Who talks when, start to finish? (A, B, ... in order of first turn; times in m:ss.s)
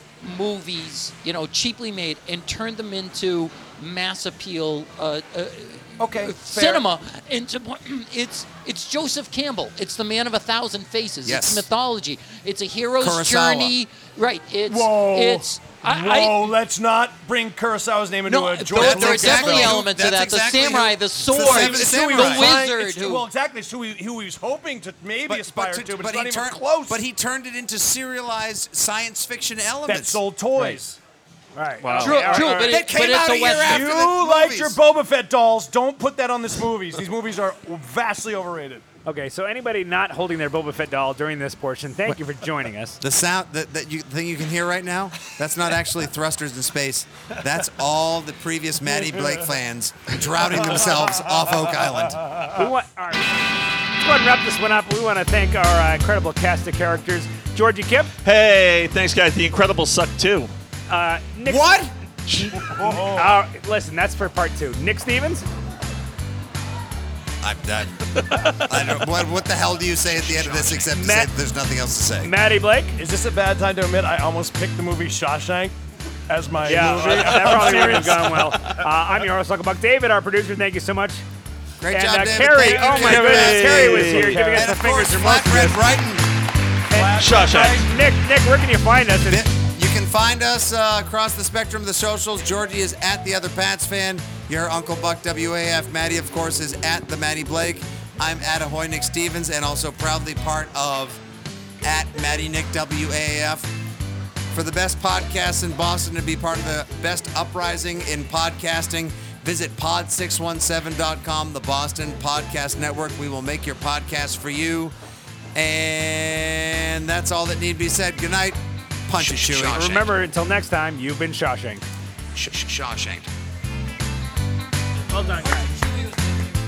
0:00.2-0:16.6 A
0:06.0-0:06.9 B
0:11.2-0:11.7 C
0:13.0-0:13.8 C
0:14.7-0:19.8 B
0:18.3-0:23.3 A
0:18.7-0:22.6 C
0:21.3-0:27.0 B
0:25.3-0:30.2 C
0:29.9-0:31.0 B
0:30.6-0:30.8 A
0:31.6-0:32.7 D
0:31.8-0:32.5 E
0:32.0-0:34.0 A
0:32.2-0:32.5 B
0:32.6-0:34.8 C
0:33.6-0:38.8 B
0:39.1-0:43.0 D
0:43.0-0:52.3 C
0:52.5-0:58.1 D
0:58.2-1:00.5 E
1:00.9-1:01.8 D
1:01.4-1:01.9 C
1:02.3-1:02.6 E
1:02.8-1:03.3 B
1:02.9-1:05.4 D
1:07.4-1:08.0 C
1:08.2-1:08.8 E
1:08.6-1:12.3 C
1:10.8-1:11.3 D
1:12.2-1:13.0 D
1:13.0-1:15.7 B
1:16.3-1:18.4 B
1:16.6-1:21.2 D
1:16.7-1:18.8 E
1:21.8-1:26.3 C
1:21.9-1:25.8 D
1:22.6-1:24.4 E
1:24.0-1:24.8 B
1:26.9-1:29.4 D
1:26.9-1:27.8 B
1:27.2-1:27.8 E
1:29.3-1:41.2 C
1:41.8-1:43.7 C
1:44.5-1:54.9 C
1:55.6-2:00.1 C
1:59.3-2:01.8 D
2:02.4-2:03.3 C
2:05.1-2:05.6 D